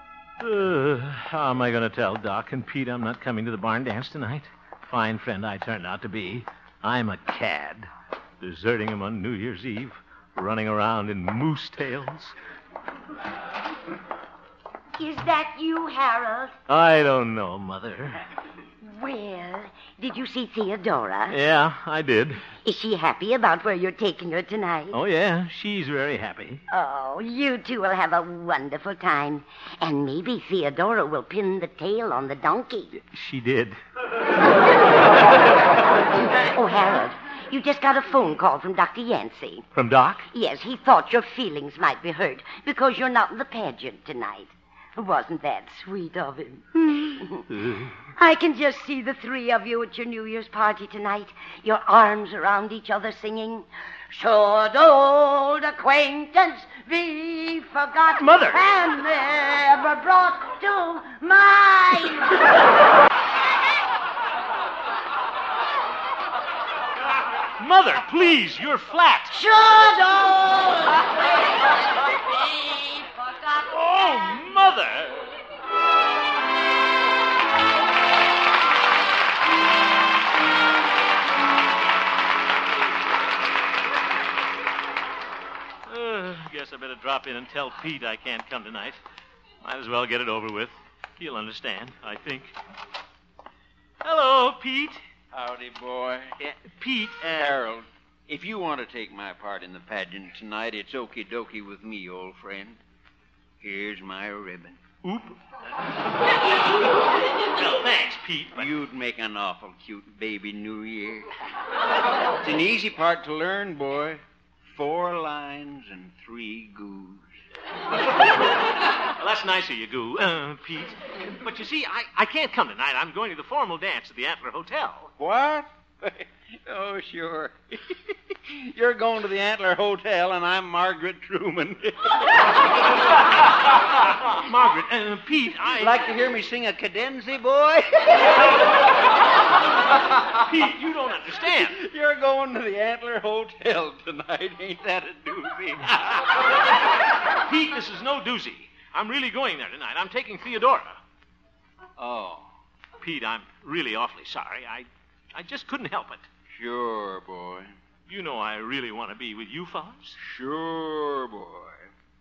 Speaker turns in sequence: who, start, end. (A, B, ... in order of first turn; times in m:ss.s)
0:00.4-0:07.9 A
0:08.4-0:12.3 A
0:15.0-0:16.5 B
0:16.7-0:18.2 A
0:18.8-0:21.4 B
0:21.3-0:22.4 A
0:22.6-0:25.0 B
0:24.9-0:26.6 A
0:26.7-0:32.9 B
0:32.9-0:33.8 A
0:36.3-0:39.7 B
0:39.7-0:40.3 A
0:40.3-0:47.5 B
0:47.5-0:47.9 A
0:48.1-1:02.4 B
0:58.2-0:58.7 A
1:07.6-1:09.4 A
1:09.3-1:11.1 B
1:13.7-1:15.3 A
1:25.9-1:29.0 A
1:29.6-1:32.6 A
1:34.0-1:35.0 A
1:35.3-1:36.3 C
1:36.4-1:37.6 A
1:37.3-1:42.8 C
1:43.6-1:44.8 C
1:45.0-1:45.4 A
1:47.5-1:48.7 A
1:48.6-1:51.3 C
1:52.4-1:57.3 C
1:59.2-2:05.1 A
2:05.2-2:12.3 C
2:14.0-2:16.0 A
2:15.8-2:18.3 C
2:20.4-2:21.8 A
2:21.7-2:26.3 C
2:27.4-2:31.0 A
2:32.0-2:32.5 C
2:33.0-2:36.3 A
2:36.5-2:37.7 C
2:38.1-2:40.2 A
2:40.2-2:41.9 C